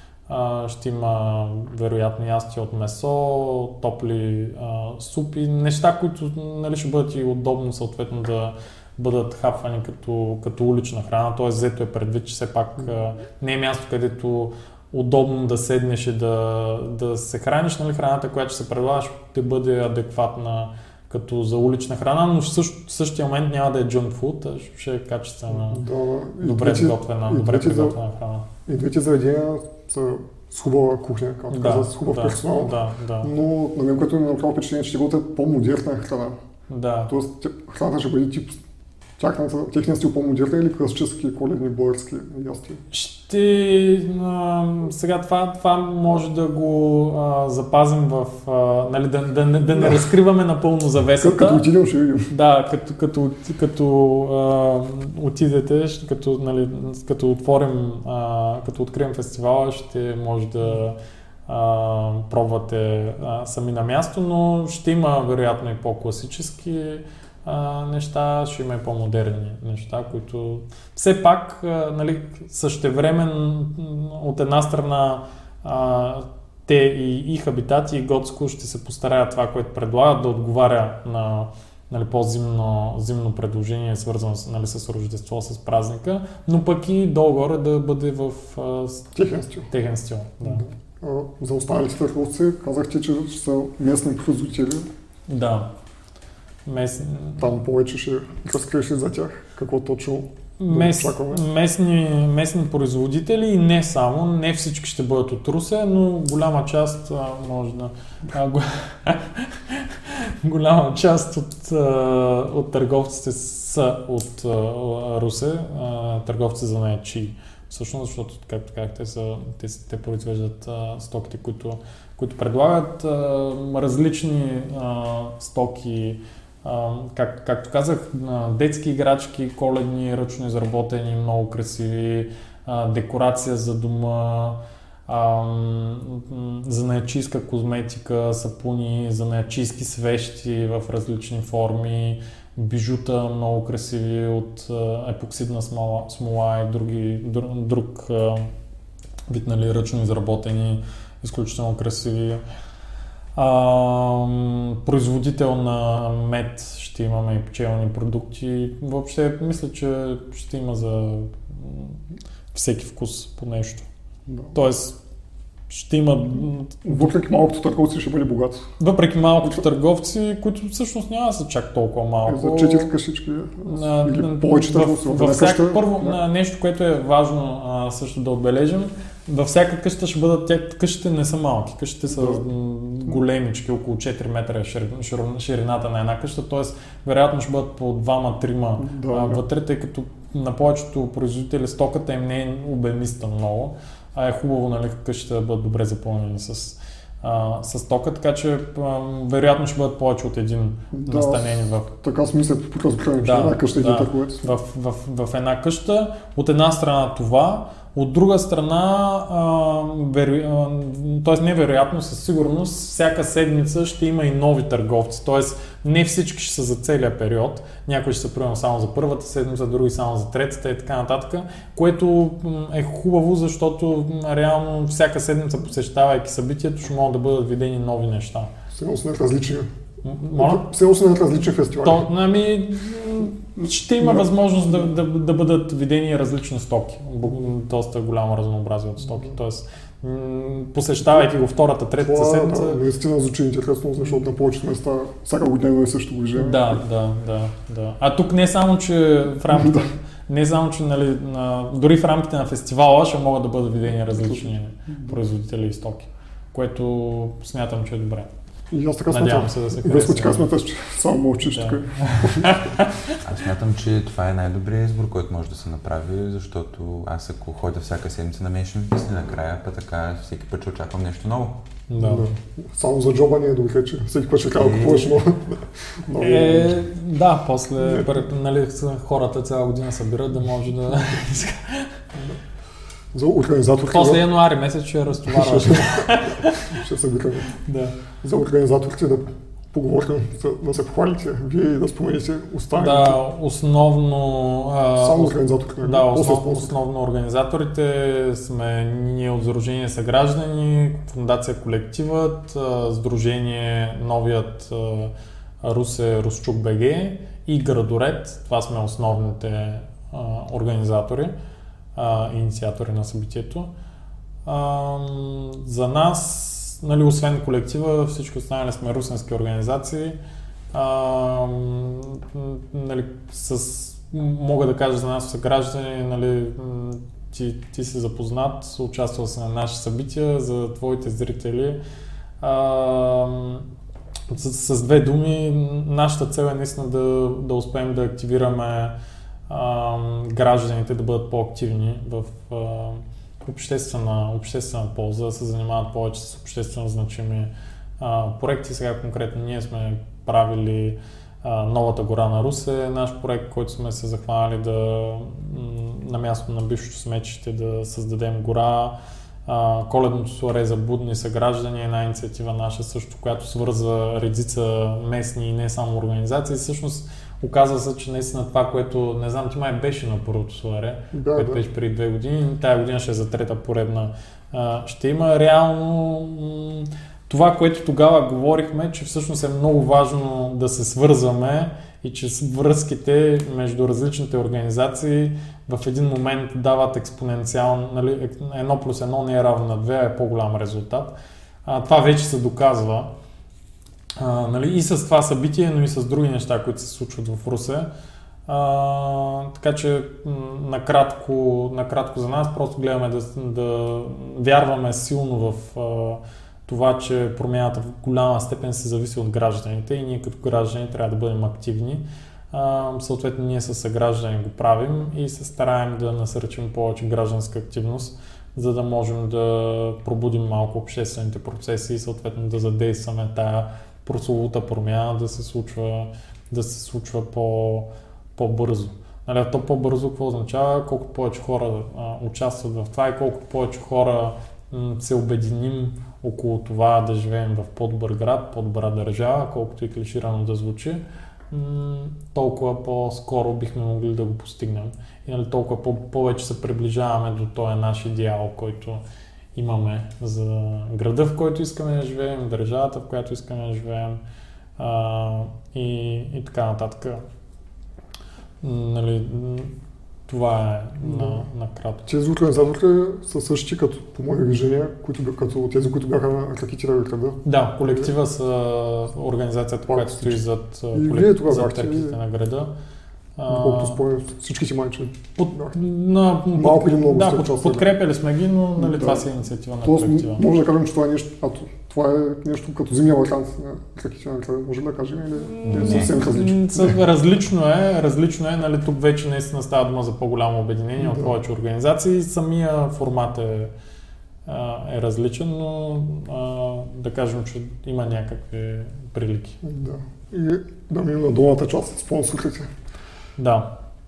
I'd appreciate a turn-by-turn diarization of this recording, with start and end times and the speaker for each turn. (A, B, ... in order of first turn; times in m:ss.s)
0:00.3-0:25.8 A
0:25.5-0:28.0 B
0:26.4-0:28.5 A
0:28.7-0:36.4 B
0:31.5-0:33.3 A
0:36.7-0:37.1 A
0:37.1-0:38.6 B
0:39.2-0:42.8 B
0:42.9-0:51.7 A
0:49.8-0:50.0 B
0:51.2-0:52.3 B
0:52.3-1:29.1 A
1:29.1-1:29.7 B
1:29.7-1:30.6 A
1:30.4-1:34.9 B
1:35.3-1:35.7 A
1:36.7-1:37.5 A
1:37.4-1:41.4 B
1:40.6-2:28.5 A
2:29.3-2:32.4 A
2:33.4-2:42.0 A
2:42.5-2:43.9 A
2:44.3-2:44.6 B
2:44.5-2:45.0 A
2:45.7-2:47.1 A
2:46.8-2:48.7 B
2:48.8-2:52.9 A
2:52.3-2:56.2 B
2:53.7-3:21.9 A
3:02.1-3:02.4 B
3:08.8-3:09.4 B
3:20.9-3:24.5 B
3:23.2-3:48.5 A
3:48.7-3:49.7 B
3:50.0-3:50.6 A
3:50.4-3:52.1 B
3:51.8-4:02.8 A
3:54.0-3:54.3 B
4:02.0-4:06.8 B
4:06.4-4:18.3 A
4:09.5-4:09.9 B
4:14.1-4:15.2 B
4:18.7-4:22.6 B
4:19.1-4:20.5 A
4:21.5-4:23.2 A
4:23.2-4:31.6 C
4:31.9-4:32.3 A
4:32.0-4:36.8 B
4:34.6-4:35.2 C
4:36.2-4:42.0 A
4:37.8-4:38.2 B
4:43.1-4:44.2 B
4:43.8-4:46.7 A
4:45.3-4:47.6 B
4:47.6-4:48.0 A
4:48.2-4:53.2 B
4:52.8-5:11.3 A
4:55.0-4:56.7 B
5:12.0-5:13.7 A
5:14.5-5:20.2 A
5:20.7-5:31.8 A
5:32.4-5:33.7 A
5:34.3-5:39.0 A
5:39.5-5:59.0 A
5:59.5-6:33.1 A
6:11.1-6:11.6 B
6:34.2-6:37.9 A
6:38.5-7:29.0 A
7:29.6-7:34.2 A
7:34.8-7:37.2 A
7:38.6-7:39.7 A
7:40.3-7:42.1 A
7:41.0-7:41.4 B
7:42.1-7:48.1 B
7:47.4-7:52.7 A
7:49.9-7:50.4 B
7:50.9-7:52.2 B
7:53.4-7:54.0 A
7:53.5-7:55.8 B
7:55.4-8:00.4 A
7:56.6-7:57.9 B
7:58.8-7:59.2 B
7:59.8-8:07.0 B
8:05.4-8:13.7 A
8:05.6-8:06.1 C
8:11.0-8:11.4 B
8:14.5-8:19.6 A
8:19.6-8:22.7 B
8:23.4-8:23.7 A